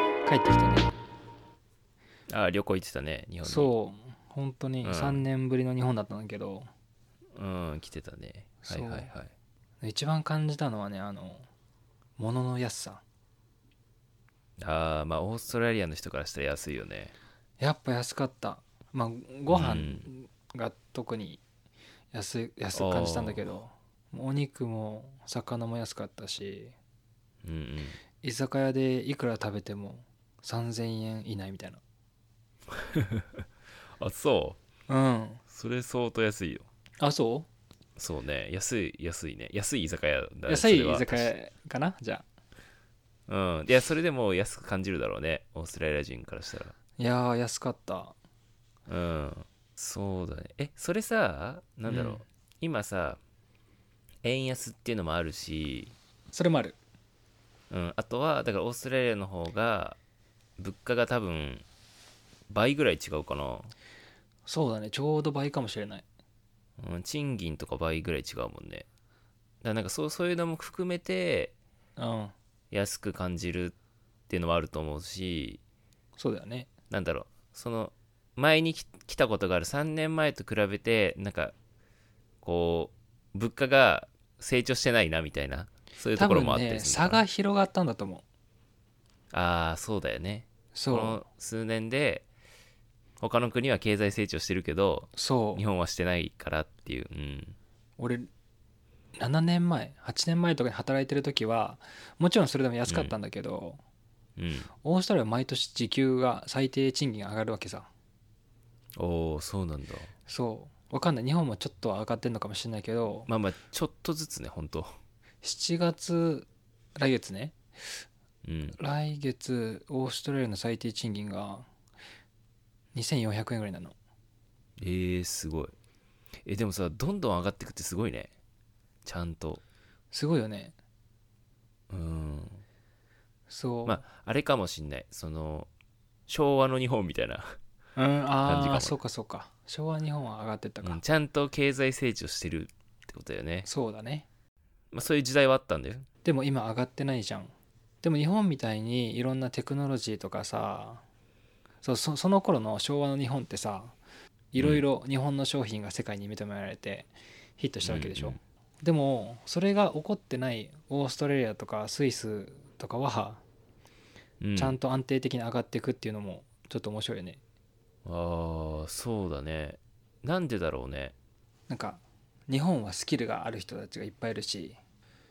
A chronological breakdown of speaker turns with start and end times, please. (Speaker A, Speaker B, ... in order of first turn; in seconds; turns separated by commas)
Speaker A: 0.2-0.9, Speaker B: 2.3-3.7, Speaker A: 3.4-6.7, Speaker B: 4.8-5.2, Speaker B: 7.3-9.3, Speaker A: 8.6-9.1, Speaker A: 9.8-11.5, Speaker A: 12.2-13.0, Speaker B: 14.6-17.1, Speaker A: 17.6-21.4, Speaker B: 19.5-20.1, Speaker A: 22.1-26.7, Speaker B: 22.7-23.4, Speaker B: 27.4-28.0, Speaker A: 28.2-31.8, Speaker B: 32.7-33.4, Speaker B: 34.0-34.6, Speaker A: 34.9-35.4, Speaker B: 35.5-36.7, Speaker A: 37.0-37.5, Speaker B: 38.0-41.3, Speaker A: 40.5-42.2, Speaker B: 43.3-46.7, Speaker A: 47.0-48.1, Speaker B: 48.9-53.2, Speaker A: 51.9-52.2, Speaker B: 54.2-55.9, Speaker A: 56.3-56.8, Speaker B: 57.7-60.0, Speaker B: 60.6-61.6, Speaker B: 62.5-63.7, Speaker A: 64.5-66.0, Speaker B: 66.8-68.8, Speaker B: 69.6-71.5, Speaker A: 72.0-72.3, Speaker B: 72.7-73.7, Speaker B: 74.3-75.6, Speaker A: 76.2-76.7, Speaker B: 76.9-81.5, Speaker B: 82.4-87.2, Speaker A: 86.2-88.2, Speaker B: 89.3-92.2, Speaker A: 90.7-91.2, Speaker B: 93.2-97.5, Speaker A: 95.1-95.6, Speaker A: 98.0-98.3, Speaker A: 99.2-103.8, Speaker B: 102.9-103.1, Speaker B: 104.4-104.7, Speaker A: 104.8-107.9, Speaker B: 109.0-110.1, Speaker A: 110.3-113.3, Speaker B: 113.3-115.0, Speaker A: 115.4-118.0, Speaker B: 118.4-118.8, Speaker A: 118.8-121.7, Speaker A: 122.9-123.9, Speaker B: 124.8-125.7, Speaker B: 126.4-128.3, Speaker B: 129.0-129.6, Speaker A: 130.1-130.7, Speaker B: 131.9-132.6, Speaker A: 133.5-134.0, Speaker B: 133.8-135.7, Speaker B: 136.3-137.6, Speaker A: 137.9-141.0, Speaker B: 138.4-138.9, Speaker B: 140.8-143.7, Speaker A: 143.6-144.2, Speaker B: 144.9-146.1, Speaker A: 146.2-151.0, Speaker A: 151.8-153.9, Speaker A: 154.5-163.4, Speaker B: 154.6-154.8, Speaker B: 157.8-158.4, Speaker B: 164.4-164.8, Speaker A: 164.6-167.4, Speaker B: 168.0-171.1, Speaker A: 171.7-174.8